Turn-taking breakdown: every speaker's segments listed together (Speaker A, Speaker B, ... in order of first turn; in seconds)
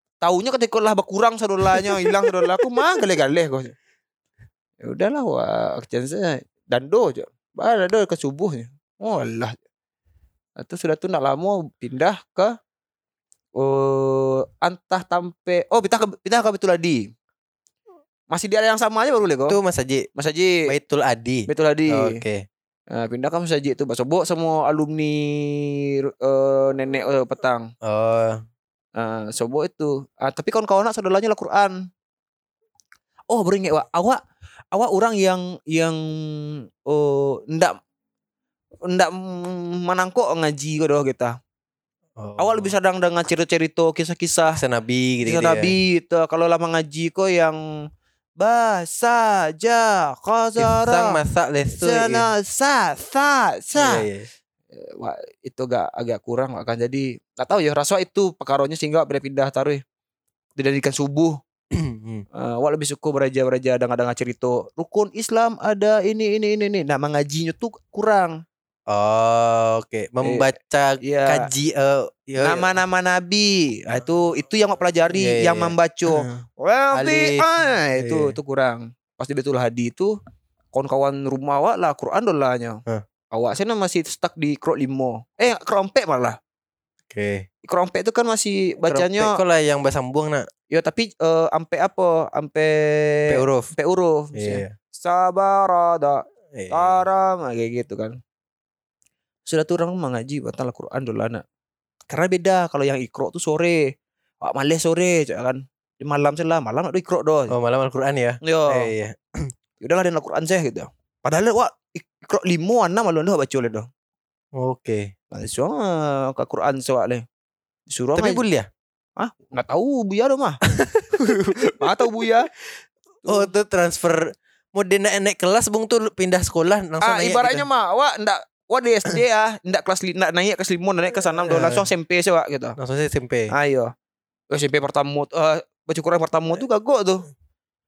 Speaker A: 0.2-3.7, 4.8-9.6, 10.6-12.5, 13.6-17.0, 18.3-19.6, 20.2-20.6, 21.5-22.2, 22.9-27.7, 29.0-31.8, 33.3-34.2, 34.7-37.8, 38.9-41.4, 42.4-44.6, 45.2-47.6, 48.4-51.2, 51.7-54.1, 54.7-59.8, 60.6-61.4, 62.4-68.4, 71.0-71.5, 72.4-80.2, 80.7-82.8, 83.3-86.4, 87.7-89.4, 90.7-98.2, 99.5-101.4, 102.1-103.8, 104.4-107.5, 108.4-108.9, 109.8-113.9, 115.3-117.2, 117.9-118.4, 119.2-120.6, 121.2-122.5, 123.2-123.5, 127.0-132.8, 133.5-133.9, 134.5-137.3
Speaker B: 1.7-2.4, 19.5-20.1, 20.7-22.4, 27.8-28.4, 42.2-42.7, 44.6-45.7, 50.6-52.3, 53.8-54.3, 61.7-62.2, 68.9-72.7, 75.2-76.4, 76.9-77.5, 78.0-78.3, 87.1-87.5, 88.8-90.5, 93.3-93.7, 94.3-94.7, 96.5-97.0, 107.5-109.5, 114.5-115.1, 118.2-118.7, 120.7-122.3, 123.3-127.7, 131.5-131.9, 132.8-133.5